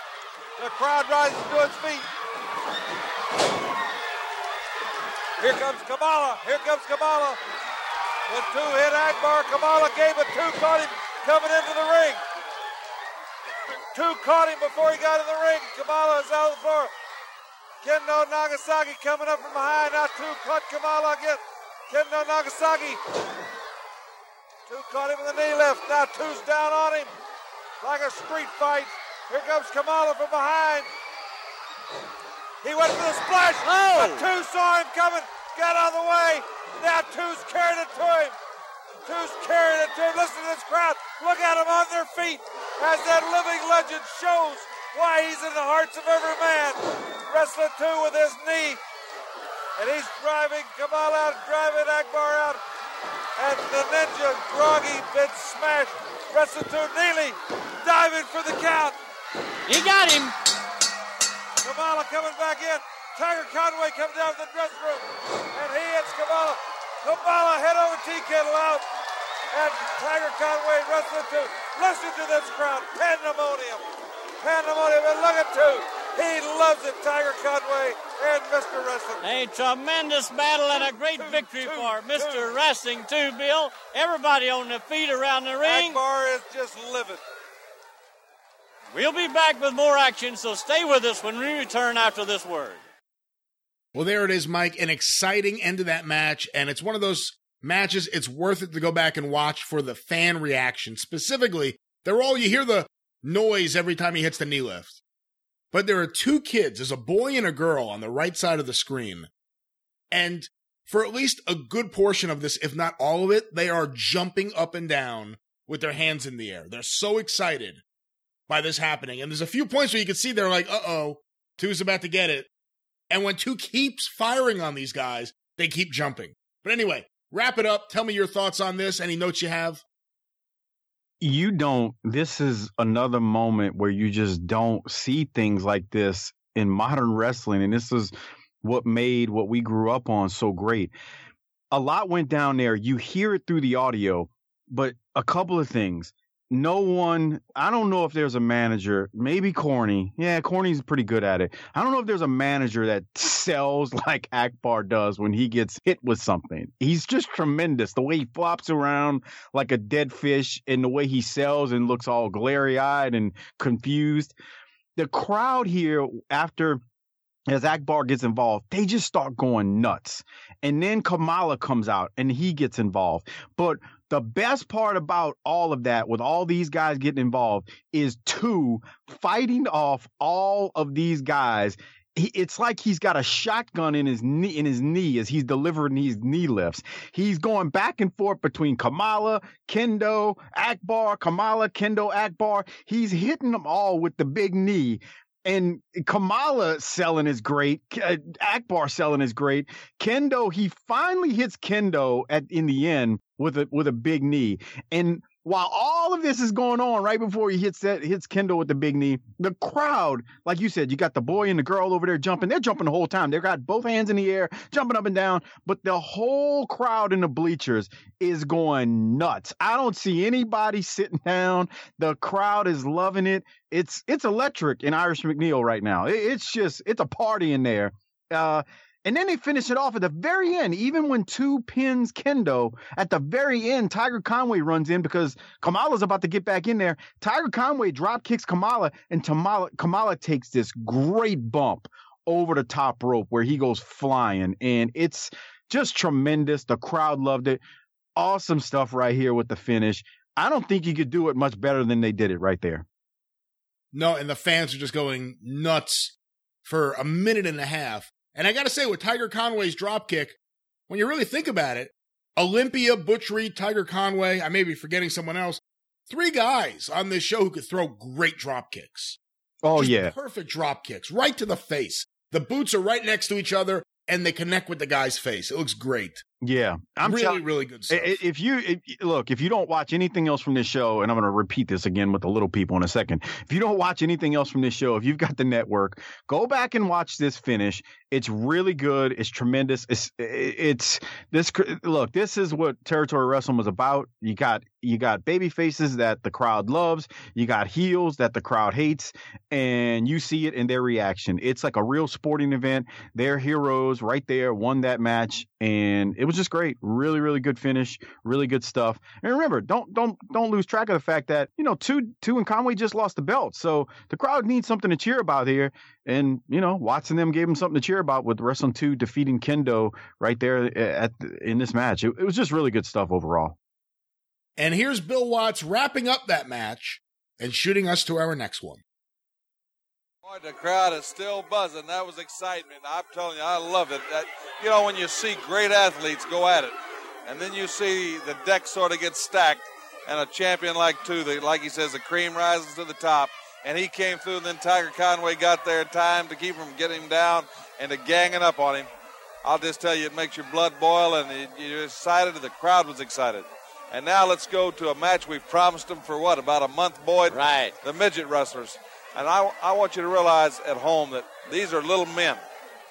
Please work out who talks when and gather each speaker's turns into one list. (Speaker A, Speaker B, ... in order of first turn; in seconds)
Speaker A: 0.6-2.1, 5.4-7.4, 8.3-12.2, 13.9-16.9, 17.8-23.0, 24.7-27.1, 27.8-30.9, 32.6-38.4, 39.0-48.8, 49.8-52.6, 53.4-59.0, 61.6-68.8, 69.5-73.8, 74.4-79.3, 80.7-82.6, 85.6-87.2, 330.2-336.7, 337.2-348.9, 349.4-362.4
Speaker B: 33.7-34.3, 59.6-60.4, 79.2-86.0, 88.9-92.8, 357.3-357.8
Speaker C: 93.9-105.0, 105.7-109.3, 110.1-117.8, 118.5-122.5, 123.1-129.8, 253.9-256.1, 256.6-260.4, 260.9-269.2, 269.7-276.2, 277.0-278.2, 324.6-328.8
Speaker D: 131.2-140.9, 141.7-164.3, 164.9-166.8, 167.5-247.6, 248.2-252.8, 269.6-270.1, 276.4-323.6